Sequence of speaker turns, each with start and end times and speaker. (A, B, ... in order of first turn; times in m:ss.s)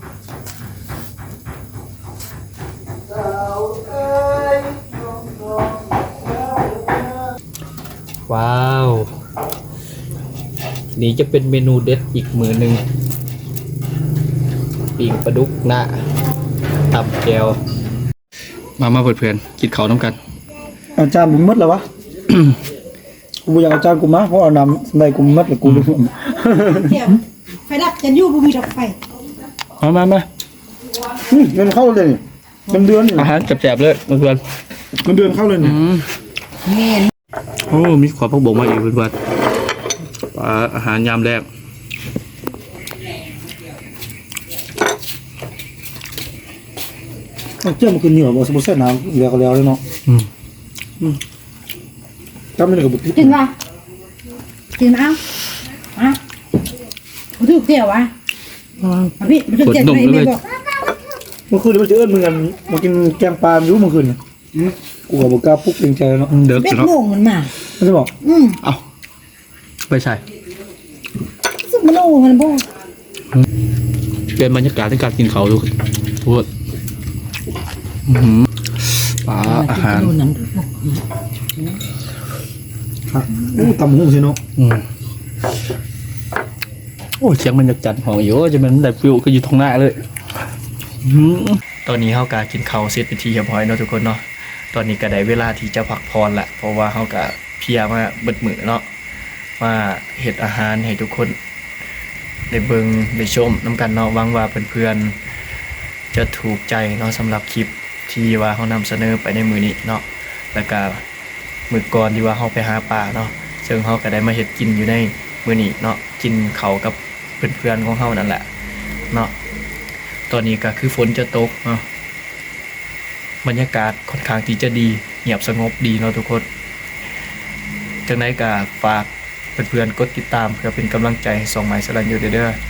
0:08.3-0:09.1 A
0:11.0-0:12.8 A
0:14.9-0:16.1 A
0:16.9-0:17.6 A
0:18.8-0:20.2 A
0:21.0-0:21.8 B
0:23.4-0:27.0 B
0:25.6-0:26.0 A
0:26.4-0:29.0 C
0:29.8-0:30.3 A
0:31.2-0:33.3 B
0:33.1-0:34.4 A
0:35.0-0:35.8 B
0:35.6-0:36.1 A
0:36.6-0:37.1 C
0:37.7-0:39.2 A
0:40.3-0:41.5 A
0:47.6-0:49.8 B
0:52.6-0:53.4 B
0:53.1-0:53.5 C
0:54.8-0:55.2 C
0:55.9-0:56.2 C
0:57.4-0:58.1 C
0:58.8-1:00.4 A
0:59.2-1:00.5 C
1:01.5-1:04.2 B
1:05.1-1:06.4 B
1:06.3-1:06.9 A
1:06.5-1:07.5 C
1:07.8-1:08.1 B
1:08.2-1:08.6 C
1:09.9-1:10.2 A
1:11.6-1:12.6 C
1:14.4-1:16.5 A
1:18.0-1:20.1 A
1:19.4-1:21.0 C
1:23.1-1:24.4 B
1:24.6-1:24.8 A
1:27.2-1:30.0 A
1:31.0-1:38.8 A
1:39.6-1:41.3 A
1:42.5-1:45.2 A
1:46.1-1:51.0 A
1:51.7-1:58.4 A
2:00.3-2:01.8 A
2:03.4-2:06.4 A
2:08.0-2:12.6 A